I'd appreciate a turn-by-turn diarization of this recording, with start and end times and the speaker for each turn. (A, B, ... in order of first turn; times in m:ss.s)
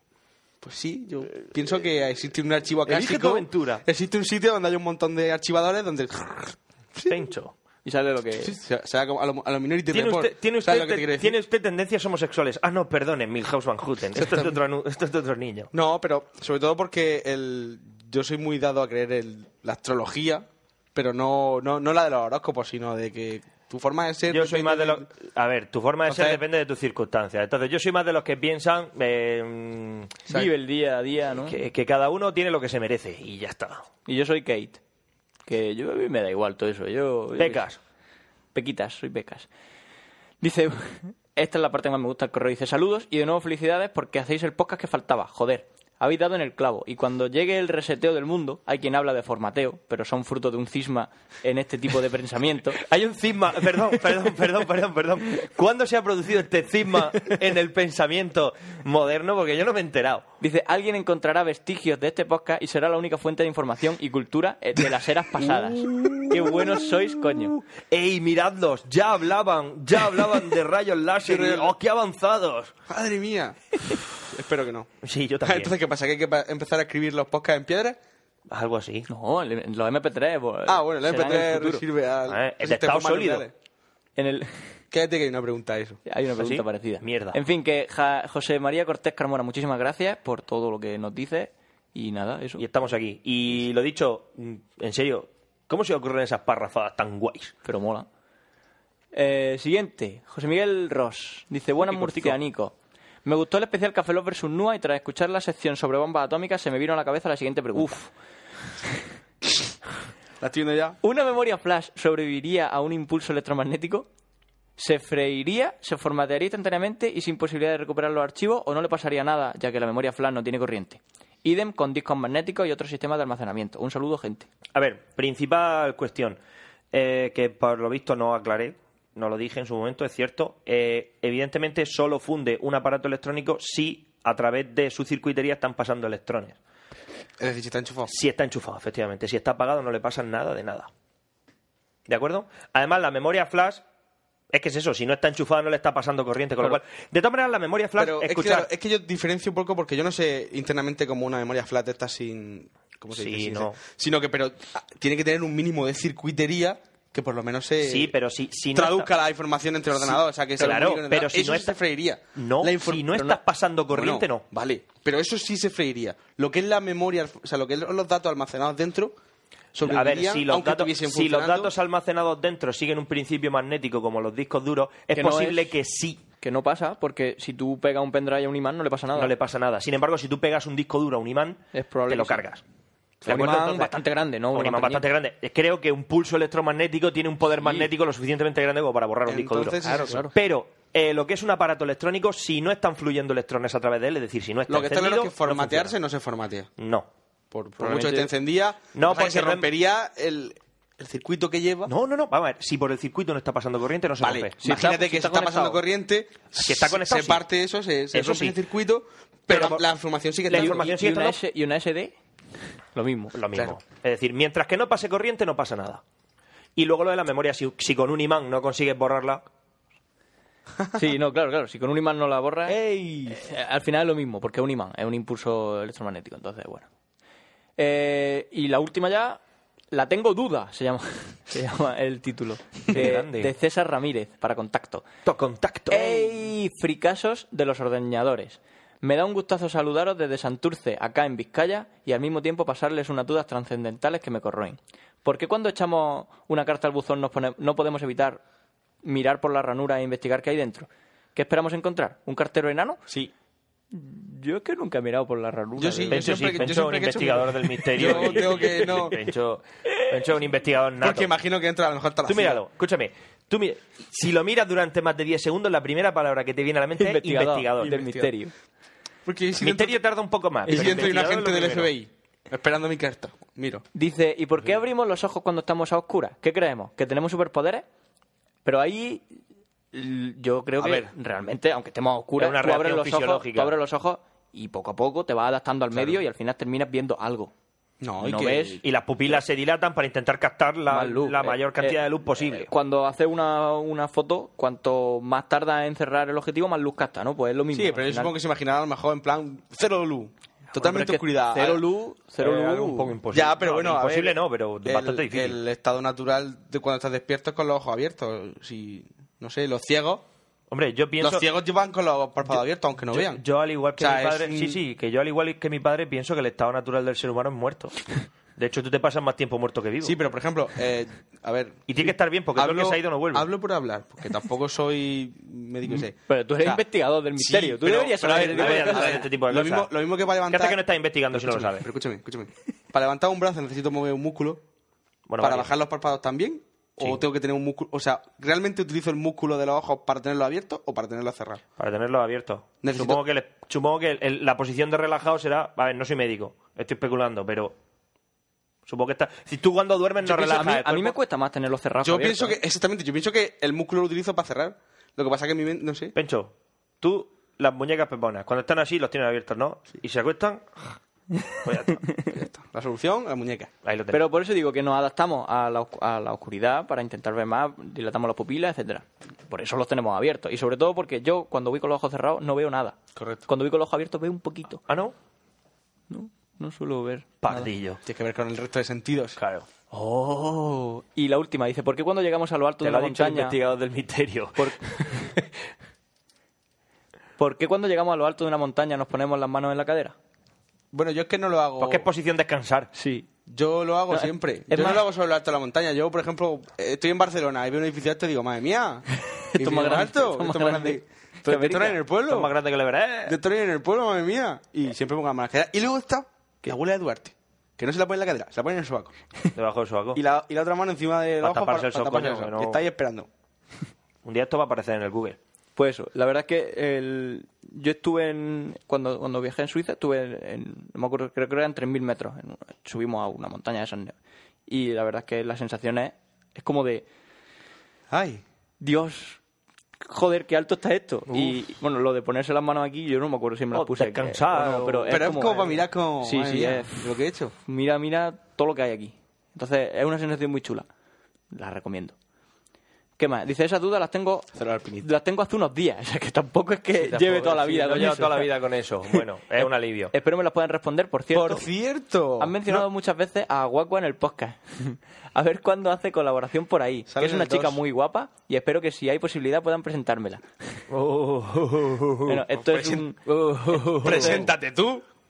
0:00.6-0:07.2 A
0:02.8-0:03.8 B
0:07.0-0:07.5 B
0:07.8-0:08.5 C
0:08.4-0:11.4 A
0:09.9-0:15.7 B
0:14.2-0:14.5 A
0:15.7-0:25.0 A
0:24.3-0:30.2 B
0:26.1-0:26.4 A
0:30.3-0:31.6 C
0:31.4-0:33.9 B
0:34.0-0:34.8 C
0:35.4-0:37.7 C
0:37.4-0:37.8 B
0:38.5-0:39.5 C
0:40.4-0:52.8 C
0:52.8-1:00.2 B
1:00.4-1:07.6 C
1:05.8-1:06.7 B
1:07.5-1:12.7 B
1:11.2-1:11.7 A
1:12.9-1:14.9 A
1:15.0-1:15.7 B
1:15.4-1:18.0 A
1:18.5-1:19.1 B
1:19.1-1:21.8 C
1:20.6-1:23.5 A
1:22.3-1:23.5 B
1:24.2-1:24.7 C
1:24.9-1:26.0 A
1:26.0-1:32.6 C
1:26.4-1:27.4 B
1:32.6-1:37.5 B
1:37.6-1:38.1 C
1:39.1-1:48.1 C
1:41.8-1:42.4 B
1:50.4-1:51.0 A
1:51.0-1:54.1 C
1:54.8-2:04.5 C
2:04.7-2:06.4 B
2:06.9-2:16.6 B
2:17.4-2:18.1 A
2:18.1-2:20.9 B
2:22.1-2:23.8 B
2:24.5-2:28.7 B
2:28.0-2:38.1 A
2:33.1-2:33.8 B
2:37.8-2:39.1 B
2:38.7-2:43.4 A
2:40.0-2:41.8 B
2:42.4-2:44.4 B
2:43.9-2:49.1 A
2:49.7-2:51.7 A
2:49.8-2:56.2 B
2:55.1-2:55.7 C
2:56.4-2:59.3 C
2:59.1-3:02.6 B
3:01.7-3:02.4 C
3:03.2-3:03.8 A
3:03.2-3:04.0 B
3:03.2-3:05.0 C
3:04.5-3:15.9 B
3:07.6-3:07.9 C
3:09.2-3:10.3 A
3:09.8-3:10.3 C
3:14.7-3:16.7 A
3:16.8-3:17.1 B
3:17.5-3:21.9 A
3:17.8-3:18.3 C
3:18.9-3:19.7 B
3:21.9-3:24.6 B
3:24.2-3:30.9 A
3:24.6-3:25.8 C
3:26.6-3:27.4 B
3:28.1-3:28.6 B
3:29.5-3:29.8 B
3:30.5-3:31.4 B
3:30.5-3:32.1 C
3:32.9-3:33.3 C
3:33.3-3:36.0 B
3:36.8-3:39.4 B
3:40.9-3:46.9 C
3:42.7-3:43.4 A
3:47.8-3:49.4 C
3:49.9-3:55.0 C
3:52.9-3:53.5 B
3:55.2-3:56.4 B
3:55.9-4:08.4 C
4:09.0-4:13.0 C
4:13.9-4:16.6 C
4:15.8-4:19.2 A
4:16.1-4:21.3 B
4:17.9-4:19.2 C
4:21.0-4:22.6 A
4:22.2-4:28.0 B
4:27.0-4:28.5 C
4:27.9-4:28.3 A
4:29.2-4:30.0 A
4:29.6-4:31.9 B
4:30.7-4:33.8 A
4:30.7-4:31.0 C
4:33.9-4:37.8 C
4:38.6-4:39.2 C
4:39.9-4:47.5 C
4:42.4-4:43.7 B
4:48.0-4:48.8 A
4:48.2-4:48.8 C
4:48.8-4:52.7 B
4:50.9-4:58.3 C
4:57.7-5:01.8 A
5:00.7-5:03.1 C
5:02.4-5:05.6 B
5:03.3-5:10.2 A
5:10.7-5:11.5 B
5:11.2-5:13.4 A
5:13.1-5:20.2 B
5:14.0-5:14.8 A
5:20.0-5:26.8 A
5:21.9-5:23.5 B
5:25.9-5:29.3 C
5:27.4-5:30.8 A
5:28.2-5:29.9 B
5:30.5-5:31.8 B
5:31.3-5:34.6 A
5:35.3-5:35.7 B
5:35.4-5:41.6 A
5:41.8-5:47.7 B
5:42.8-5:43.2 A
5:48.9-5:51.1 B
5:50.3-5:50.7 A
5:50.3-5:52.6 C
5:52.0-5:56.1 A
5:56.1-6:01.0 B
6:01.4-6:02.2 C
6:01.6-6:02.0 B
6:02.3-6:03.7 A
6:03.8-6:04.2 B
6:04.1-6:14.8 C
6:13.2-6:13.4 A
6:14.9-6:15.1 B
6:16.1-6:17.7 C
6:17.4-6:18.0 B
6:18.0-6:19.4 A
6:19.4-6:19.7 B
6:19.9-6:23.6 C
6:22.8-6:25.4 B
6:24.6-6:25.3 C
6:27.4-6:30.1 C
6:30.9-6:32.1 A
6:31.8-6:32.9 B
6:32.9-6:33.3 C
6:33.5-6:42.5 A
6:34.1-6:35.0 C
6:39.3-6:42.0 C
6:42.2-6:43.4 B
6:43.2-6:49.2 A
6:49.5-6:50.2 B
6:50.2-6:53.3 A
6:51.4-6:52.8 B
6:54.2-6:55.4 B
6:55.8-7:04.1 C
7:04.7-7:07.0 C
7:08.1-7:08.4 A
7:08.8-7:09.4 C
7:10.0-7:17.1 C
7:11.3-7:11.6 B
7:13.7-7:15.2 B
7:15.1-7:17.5 A
7:17.6-7:20.9 C
7:21.5-7:22.1 C
7:23.2-7:28.5 C
7:24.5-7:25.1 A
7:27.0-7:30.1 B
7:29.1-7:31.7 C
7:31.3-7:32.8 A
7:32.4-7:40.4 C
7:37.1-7:37.8 A
7:40.9-7:42.4 B
7:42.2-7:44.5 C
7:42.6-7:43.1 A
7:44.0-7:45.0 A